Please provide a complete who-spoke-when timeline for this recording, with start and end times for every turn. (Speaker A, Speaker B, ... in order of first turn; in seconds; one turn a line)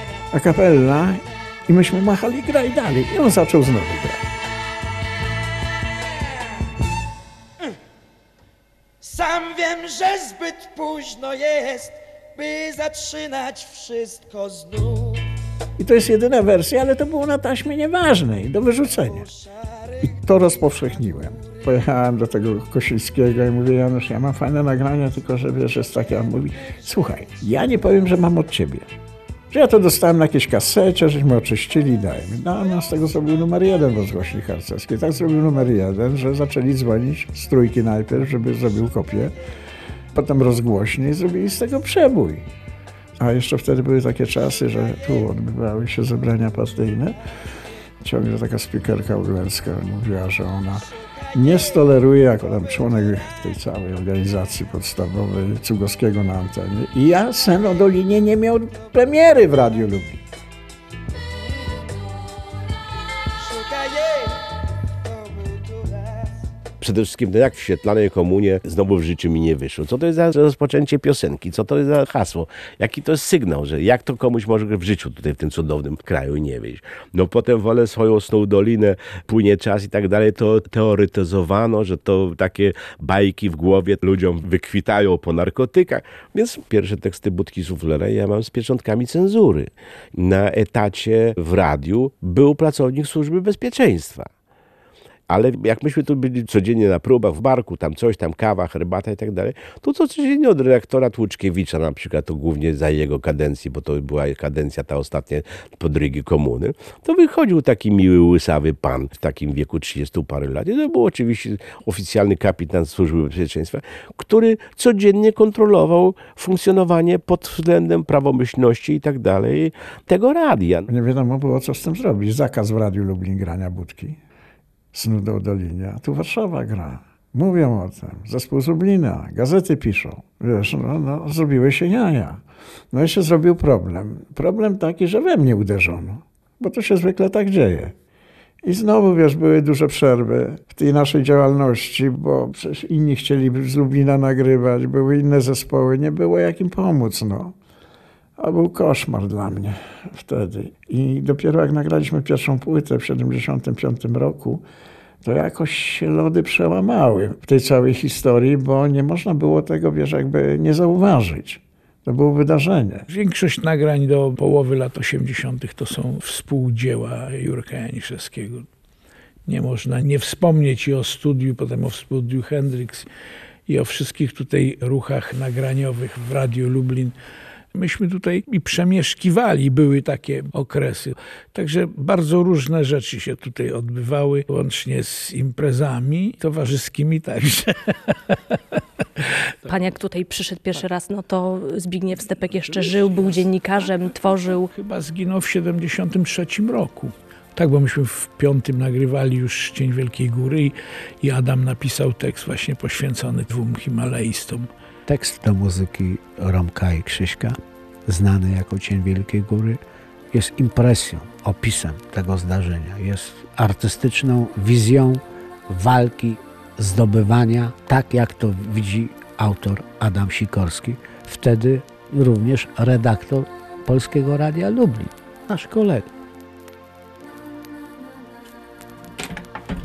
Speaker A: 0.3-4.3
Speaker B: 9.0-15.0
Speaker A: 15.8-19.3
Speaker A: 20.0-28.9
Speaker A: 29.5-39.3
Speaker A: 40.1-42.5
Speaker A: 43.2-47.1
Speaker A: 48.0-60.2
Speaker C: 66.8-94.3
Speaker C: 95.3-120.8
Speaker A: 120.9-124.2
Speaker A: 124.9-137.9
Speaker A: 138.6-147.5
Speaker A: 148.4-154.6
Speaker A: 155.2-163.1
Speaker D: 163.1-168.7
Speaker D: 169.4-173.1
Speaker D: 173.7-177.1
Speaker D: 177.7-188.6
Speaker E: 189.7-194.7
Speaker D: 192.7-193.4
Speaker D: 194.7-204.7
Speaker F: 205.1-209.8
Speaker F: 210.3-226.1